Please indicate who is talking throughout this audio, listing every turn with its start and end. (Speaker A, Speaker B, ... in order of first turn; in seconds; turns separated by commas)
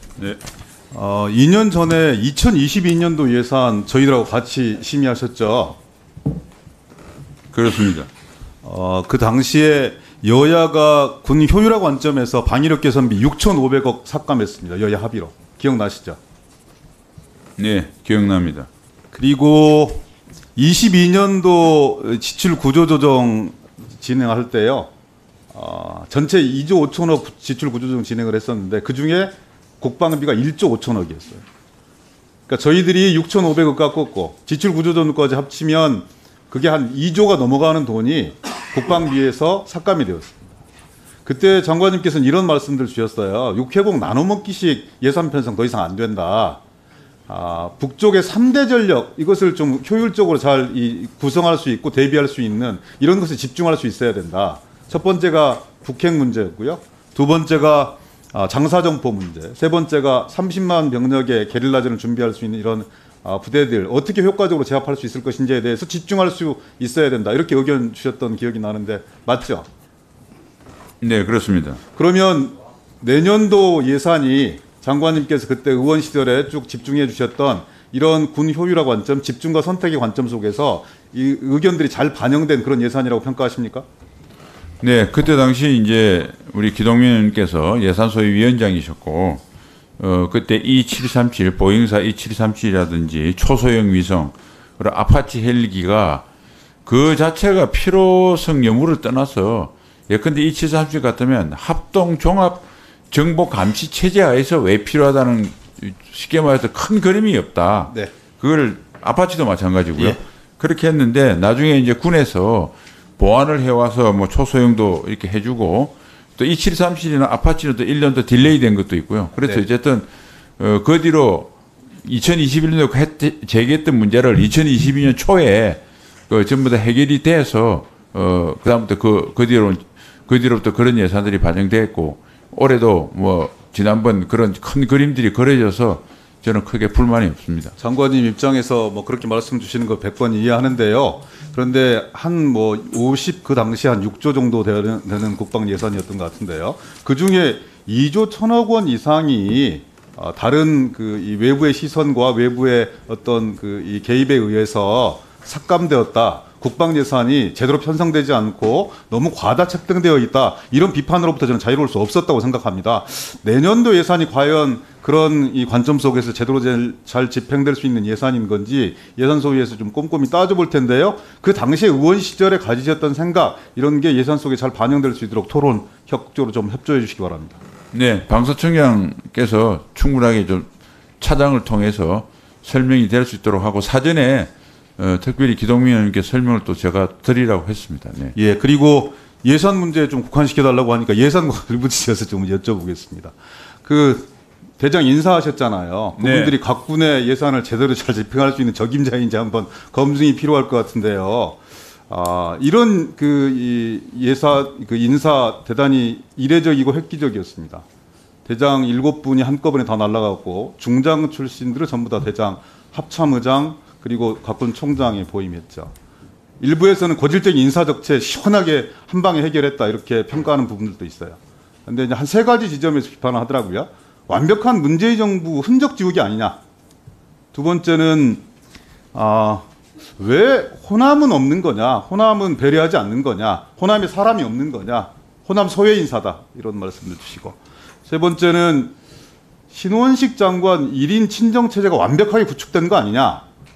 Speaker A: 0.9-5.8, Speaker B: 7.5-8.1, Speaker A: 8.6-16.2, Speaker B: 17.6-18.7, Speaker A: 19.1-20.0, Speaker A: 20.6-24.9, Speaker A: 25.5-31.4, Speaker A: 32.5-40.6, Speaker A: 41.2-46.6, Speaker A: 47.3-69.7, Speaker B: 71.0-71.8, Speaker A: 71.9-83.9, Speaker B: 84.8-89.4, Speaker B: 90.0-96.2, Speaker B: 96.9-120.1, Speaker B: 120.6-121.5, Speaker B: 122.0-137.8, Speaker A: 137.8-177.6, Speaker B: 177.9-180.7, Speaker B: 181.2-188.3, Speaker A: 188.3-207.8, Speaker B: 196.2-196.6, Speaker A: 208.5-215.9, Speaker A: 216.6-226.6, Speaker A: 227.5-228.4, Speaker A: 229.1-229.7, Speaker A: 230.2-238.9, Speaker A: 239.7-243.4